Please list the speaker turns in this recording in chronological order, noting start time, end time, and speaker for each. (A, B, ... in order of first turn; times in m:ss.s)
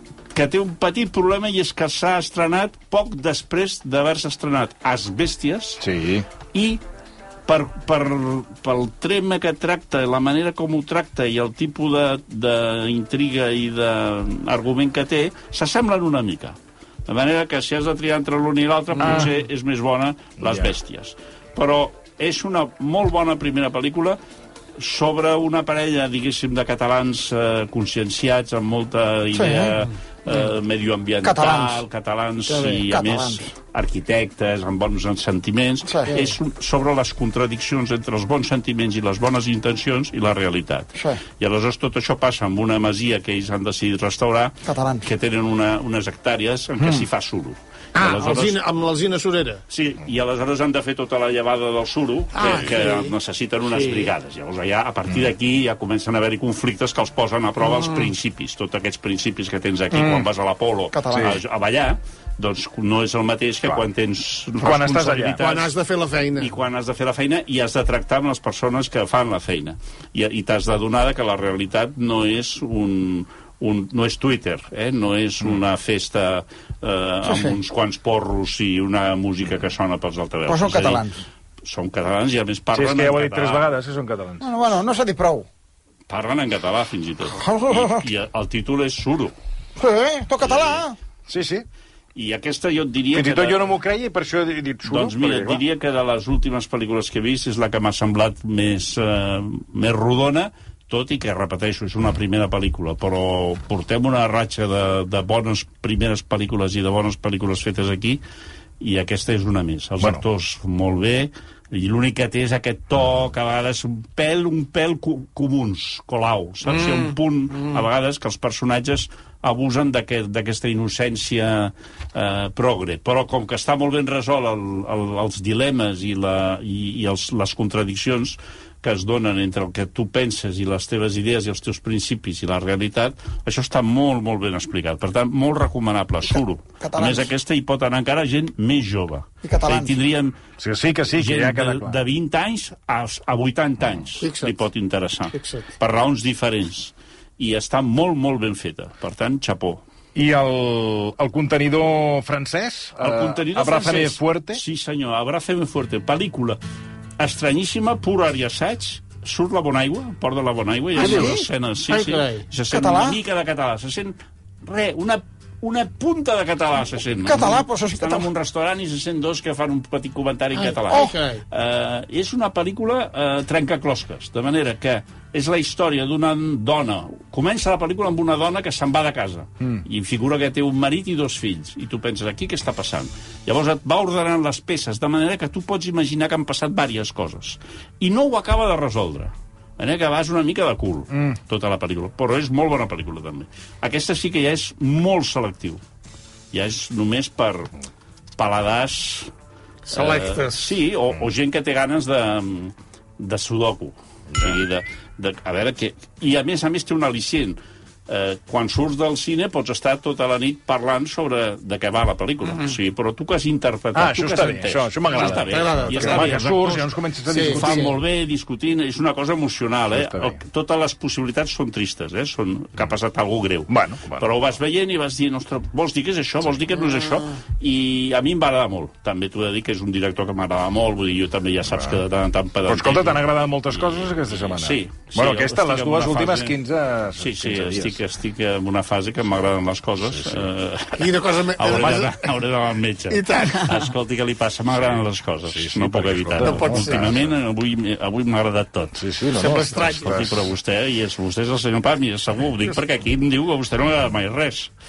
0:00.3-0:05.8 A
0:05.8-0:06.3 B
0:06.5-0:06.8 A
0:07.5-0:16.6 A
0:17.1-0:24.2 A
0:19.0-0:19.3 B
0:20.4-0:20.7 B
0:24.8-0:48.6 A
0:29.4-0:29.7 C
0:31.2-0:31.8 C
0:32.9-0:33.4 C
0:35.9-0:36.1 C
0:44.7-0:45.0 C
0:48.0-0:49.6 D
0:49.7-1:05.8 A
0:52.3-0:53.1 D
0:53.7-0:54.1 D
1:01.1-1:01.4 B
1:04.6-1:05.4 B
1:05.4-1:06.5 D
1:06.4-1:21.1 A
1:20.5-1:21.1 C
1:21.6-1:23.6 A
1:22.7-1:24.5 B
1:24.4-1:25.4 C
1:26.1-1:29.3 A
1:27.4-1:28.0 C
1:29.8-1:30.9 C
1:30.4-1:30.9 A
1:31.3-1:31.6 B
1:32.2-1:33.7 A
1:33.1-1:35.6 B
1:34.9-1:48.2 A
1:48.8-2:20.4 A
2:16.8-2:17.3 C
2:19.4-2:19.9 C
2:20.6-2:22.0 B
2:21.2-2:29.8 A
2:24.2-2:24.6 D
2:25.3-2:25.6 D
2:30.2-2:34.6 B
2:33.0-2:36.6 A
2:37.2-3:15.8 A
2:41.0-2:41.4 B
2:41.0-2:41.5 C
2:41.9-2:42.4 D
2:42.7-2:43.1 C
2:47.3-2:48.2 C
2:50.7-2:51.4 D
3:16.5-3:17.7 A
3:18.4-3:19.3 A
3:19.9-3:20.7 D
3:19.9-3:36.9 A
3:34.0-3:38.0 B
3:35.2-3:36.5 D
3:37.3-3:37.9 D
3:37.5-3:56.6 A
3:39.9-3:40.4 B
3:43.7-3:44.3 B
3:52.7-3:58.0 B
3:57.2-4:09.0 A
4:01.0-4:02.3 D
4:03.1-4:03.7 D
4:05.5-4:07.2 B
4:06.4-4:07.1 D
4:09.0-4:10.4 B
4:09.3-4:10.3 D
4:09.8-4:14.7 A